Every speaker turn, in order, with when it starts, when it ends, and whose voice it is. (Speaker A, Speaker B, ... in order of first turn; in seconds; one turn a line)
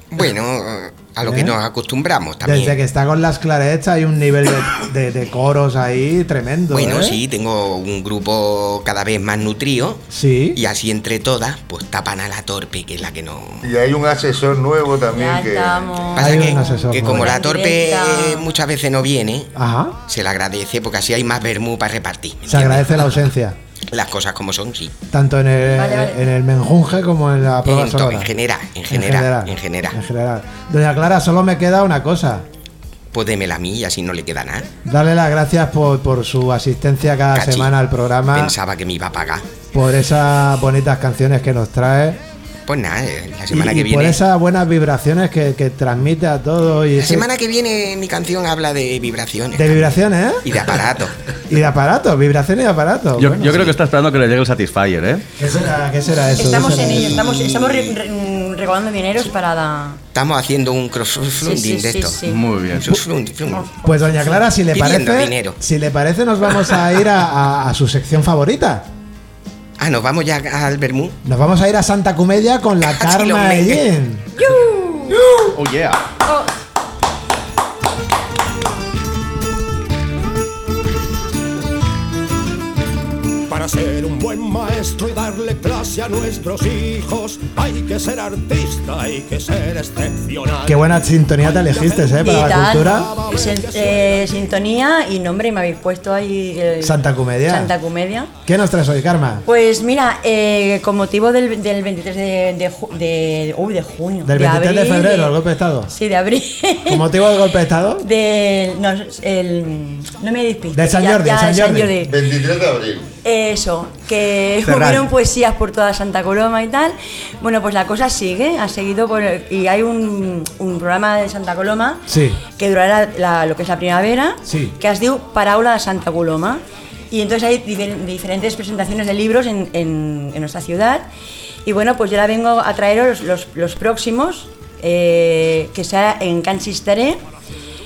Speaker A: 0.1-2.8
Speaker B: 1.2-1.6
Speaker B: 2.4-7.2
Speaker A: 6.7-13.7
Speaker B: 10.1-10.6
Speaker C: 13.6-16.0
Speaker D: 15.1-18.4
Speaker A: 16.1-19.5
Speaker B: 16.2-17.3
Speaker B: 19.6-20.0
Speaker A: 20.1-23.2
Speaker B: 22.5-23.6
Speaker A: 23.9-24.9
Speaker B: 25.1-28.3
Speaker D: 25.7-26.2
Speaker A: 27.6-30.0
Speaker B: 28.9-32.4
Speaker A: 33.1-34.7
Speaker B: 34.9-38.5
Speaker A: 37.3-37.8
Speaker A: 38.3-39.5
Speaker B: 39.7-42.2
Speaker A: 42.7-44.2
Speaker B: 43.5-47.3
Speaker A: 47.0-51.2
Speaker B: 49.5-50.5
Speaker B: 51.5-53.7
Speaker E: 53.2-55.2
Speaker B: 55.4-57.2
Speaker D: 56.3-60.0
Speaker A: 60.1-62.2
Speaker D: 61.4-62.5
Speaker E: 62.2-63.0
Speaker A: 62.7-63.7
Speaker B: 63.8-68.9
Speaker A: 64.7-65.6
Speaker A: 69.8-71.2
Speaker B: 71.2-74.3
Speaker A: 72.8-73.9
Speaker D: 74.3-75.5
Speaker E: 75.1-76.0
Speaker F: 83.6-90.5
Speaker B: 90.6-93.2
Speaker D: 92.1-98.3
Speaker B: 96.8-97.7
Speaker B: 98.5-99.4
Speaker D: 99.5-105.4
Speaker B: 104.2-105.9
Speaker D: 105.9-107.1
Speaker B: 106.9-108.0
Speaker D: 108.0-112.1
Speaker B: 110.7-111.9
Speaker C: 112.0-113.1
Speaker D: 113.2-131.1
Speaker B: 114.7-115.1
Speaker B: 122.1-122.4
Speaker B: 124.5-124.8
Speaker D: 131.7-137.2